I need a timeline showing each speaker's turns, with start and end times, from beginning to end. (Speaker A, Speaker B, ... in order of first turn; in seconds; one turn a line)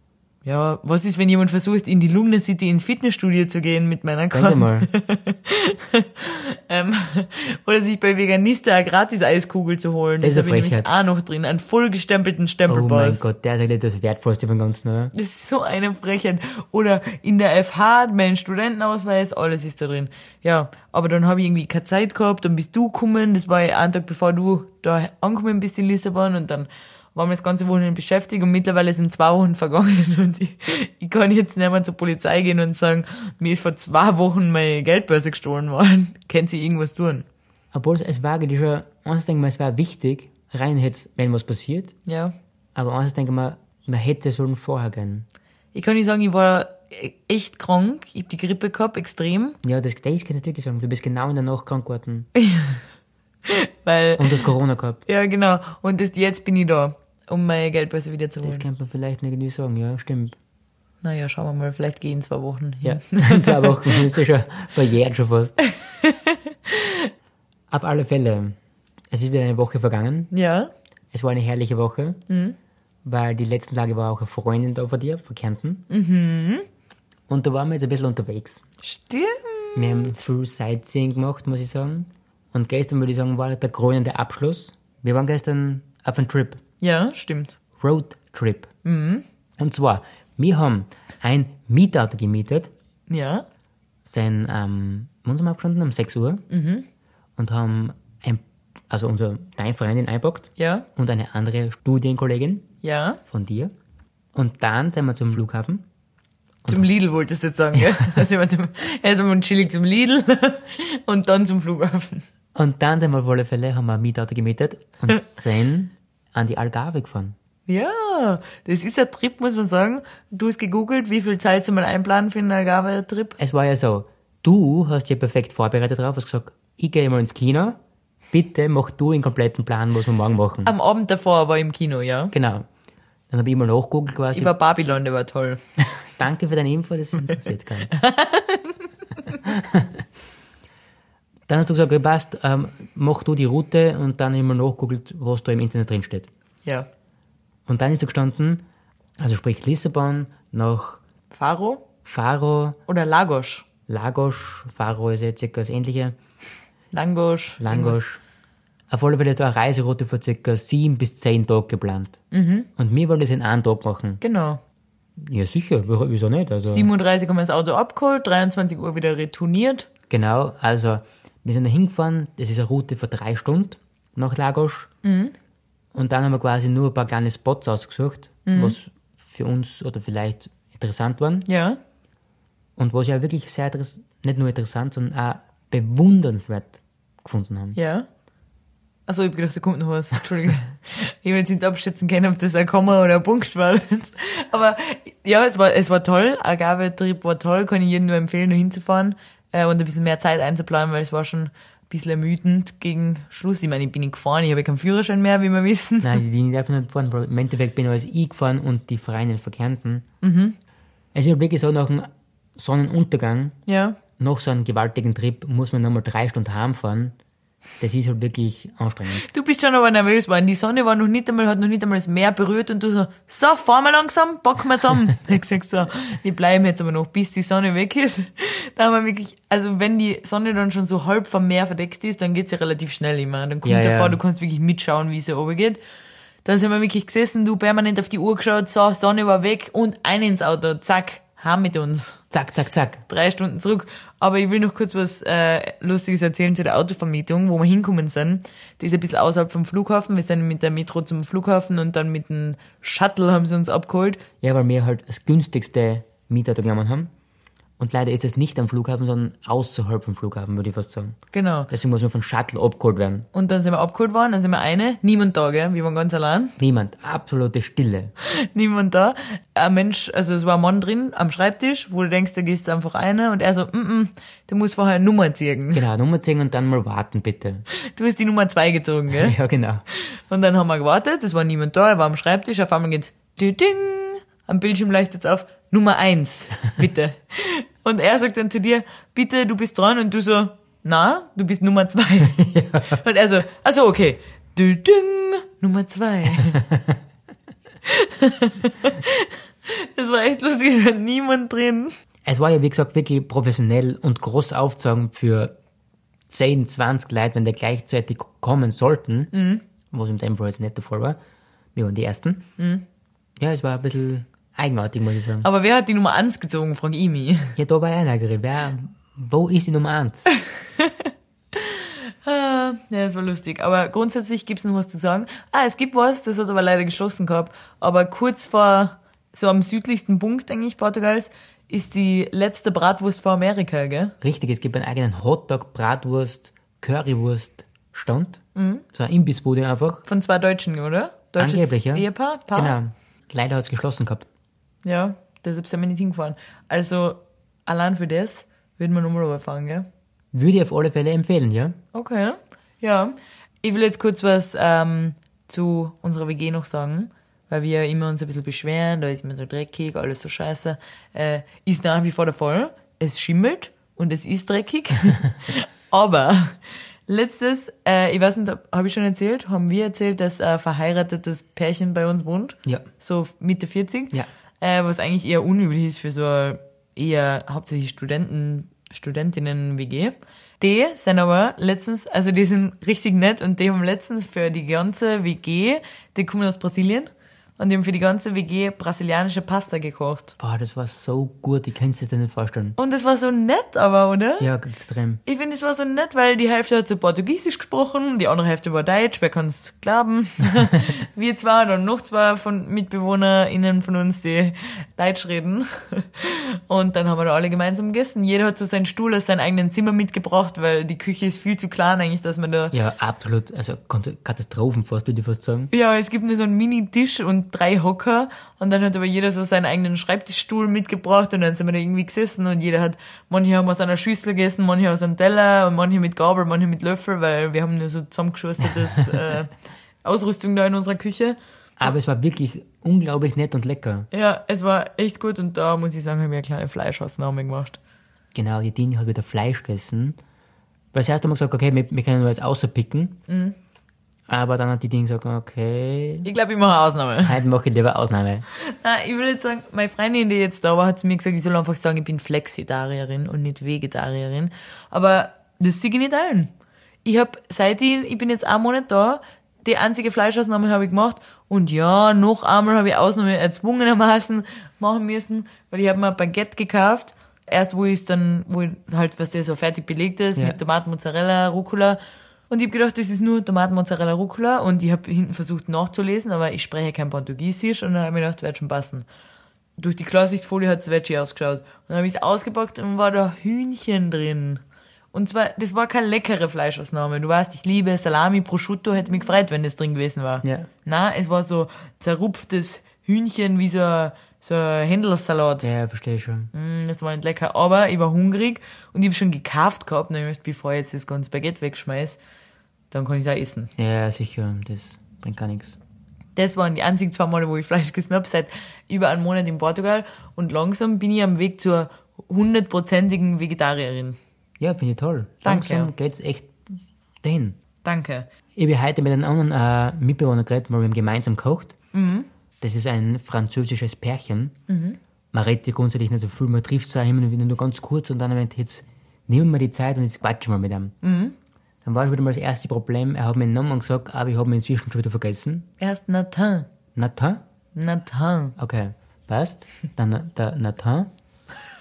Speaker A: 0.5-13.3
Speaker B: 4.3-4.9
Speaker B: 10.2-10.9
Speaker B: 12.7-15.1
Speaker A: 15.1-37.2
Speaker B: 37.7-42.0
Speaker A: 42.1-42.3
Speaker B: 42.8-45.3
Speaker A: 45.7-49.6
Speaker B: 49.6-52.3
Speaker A: 52.4-52.8
Speaker A: 53.5-54.4
Speaker B: 54.2-55.0
Speaker A: 55.1-58.6
Speaker B: 58.4-60.4
Speaker A: 61.0-64.0
Speaker B: 62.8-65.6
Speaker A: 65.8-67.1
Speaker B: 67.7-68.6
Speaker B: 69.1-70.3
Speaker A: 70.3-70.7
Speaker B: 71.1-72.2
Speaker A: 72.3-72.5
Speaker B: 73.0-75.8
Speaker A: 75.9-76.7
Speaker B: 77.3-78.6
Speaker A: 78.8-80.2
Speaker B: 79.8-86.6
Speaker A: 86.8-87.5
Speaker B: 87.8-88.7
Speaker A: 88.8-89.2
Speaker B: 89.6-92.7
Speaker A: 93.1-93.5
Speaker B: 94.0-96.4
Speaker A: 96.5-96.8
Speaker B: 97.4-102.7
Speaker A: 100.6-100.8
Speaker A: 102.8-103.2
Speaker B: 103.3-103.7
Speaker B: 104.3-105.8
Speaker A: 106.7-112.3
Speaker B: 112.5-117.3
Speaker A: 117.7-123.4
Speaker B: 123.4-127.8
Speaker B: 128.3-130.7
Speaker A: 130.7-132.3
Speaker B: 132.3-132.7
Speaker B: 133.3-134.5
Speaker A: 134.3-135.6
Speaker B: 136.0-137.9
Speaker A: 137.9-139.4
Speaker B: 139.4-140.1
Speaker B: 141.5-146.3
Speaker B: 147.7-148.7
Speaker B: 149.2-151.0
Speaker A: 151.3-151.8
Speaker B: 152.1-152.8
Speaker A: 152.9-153.7
Speaker B: 153.9-156.2
Speaker A: 156.9-158.0
Speaker B: 157.6-158.2
Speaker B: 158.9-162.2
Speaker A: 162.3-162.7
Speaker B: 162.8-164.2
Speaker A: 164.2-164.6
Speaker B: 165.2-166.9
Speaker A: 166.7-169.9
Speaker B: 170.1-174.9
Speaker A: 175.0-175.3
Speaker B: 175.9-181.5
Speaker A: 178.5-178.8
Speaker A: 181.5-181.8
Speaker B: 182.8-187.8
Speaker A: 187.8-188.1
Speaker A: 189.1-206.2
Speaker B: 206.0-210.1
Speaker A: 210.2-210.6
Speaker B: 211.1-213.6
Speaker A: 213.7-214.0
Speaker B: 214.2-217.2
Speaker B: 217.8-219.3
Speaker A: 219.1-235.8
Speaker B: 233.6-234.2
Speaker A: 236.4-242.2
Speaker B: 242.3-243.0
Speaker A: 243.1-254.2
Speaker B: 254.4-257.1
Speaker B: 257.8-261.2
Speaker A: 261.3-261.7
Speaker B: 261.7-263.3
Speaker A: 263.3-266.6
Speaker B: 266.6-268.1
Speaker A: 268.2-275.8
Speaker B: 275.7-277.7
Speaker A: 277.9-279.4
Speaker B: 279.2-279.8
Speaker A: 279.9-296.6
Speaker B: 292.4-293.0
Speaker B: 296.5-297.0
Speaker A: 297.9-301.9
Speaker B: 302.2-305.5
Speaker B: 306.3-309.3
Speaker A: 309.3-309.6
Speaker B: 309.9-311.2
Speaker B: 311.8-312.5
Speaker A: 312.6-312.8
Speaker B: 313.4-315.5
Speaker A: 315.4-317.5
Speaker B: 317.6-320.3
Speaker A: 320.8-334.1
Speaker B: 334.2-338.4
Speaker A: 338.6-338.8
Speaker B: 338.9-340.0
Speaker A: 340.1-342.8
Speaker B: 341.4-344.3
Speaker A: 344.9-349.9
Speaker B: 350.3-351.8
Speaker A: 351.9-390.3
Speaker B: 390.4-392.8
Speaker A: 392.8-394.5
Speaker B: 394.4-395.2
Speaker A: 395.3-412.7
Speaker B: 412.7-415.7
Speaker A: 415.7-429.5
Speaker A: 430.0-431.4
Speaker B: 431.8-434.1
Speaker A: 434.1-437.8
Speaker B: 438.3-440.2
Speaker B: 440.9-443.2
Speaker A: 443.3-443.6
Speaker B: 444.3-446.3
Speaker A: 446.2-447.4
Speaker B: 447.2-448.5
Speaker A: 448.6-456.5
Speaker A: 457.0-472.0
Speaker A: 472.5-479.1
Speaker A: 479.8-484.6
Speaker A: 485.1-495.7
Speaker B: 490.4-490.7
Speaker B: 495.6-496.5
Speaker A: 496.5-502.2
Speaker A: 502.9-503.7
Speaker B: 503.8-505.8
Speaker A: 506.4-514.2
Speaker B: 514.6-517.6
Speaker A: 515.4-515.9
Speaker A: 517.8-518.3
Speaker B: 518.6-521.8
Speaker A: 521.9-522.3
Speaker B: 522.6-524.6
Speaker A: 524.7-525.0
Speaker B: 525.3-531.0
Speaker A: 531.0-531.4
Speaker B: 531.8-535.7
Speaker A: 535.8-536.7
Speaker B: 537.0-537.4
Speaker A: 537.8-538.5
Speaker B: 538.6-541.1